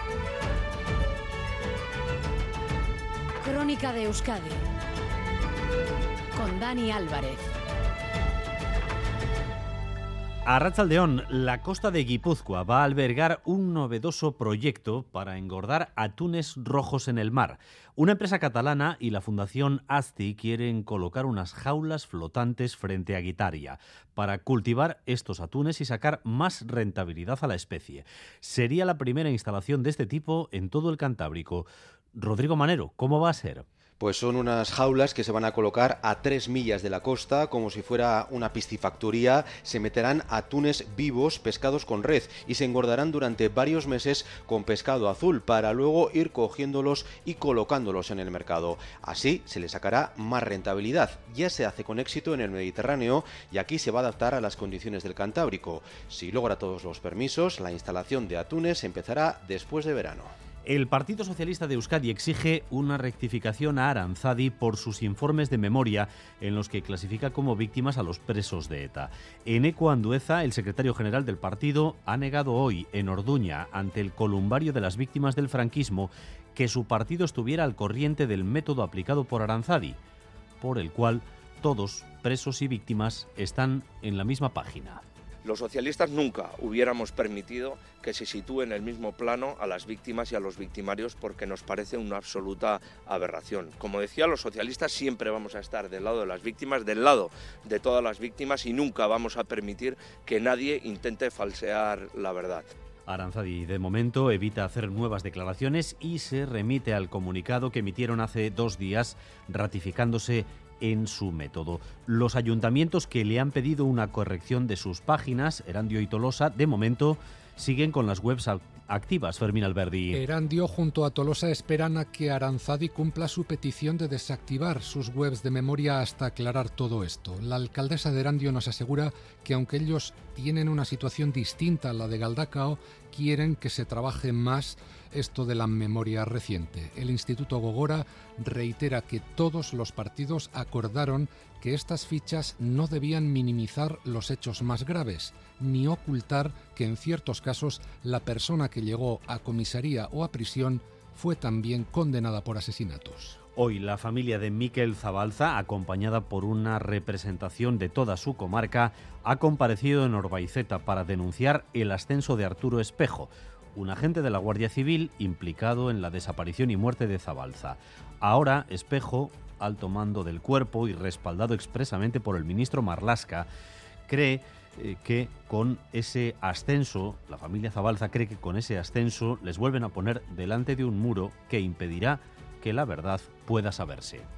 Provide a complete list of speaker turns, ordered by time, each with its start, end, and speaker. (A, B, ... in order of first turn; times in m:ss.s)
0:03.4-0:04.6 A
0:06.3-0:07.4 A
0:10.5-0:33.6 B
0:34.0-1:00.3 C
1:00.7-1:20.0 B
1:20.6-1:25.0 B
1:25.5-1:42.6 D
1:43.1-2:00.2 B
2:00.1-2:33.4 E
2:33.6-2:53.5 B
2:54.1-3:04.2 B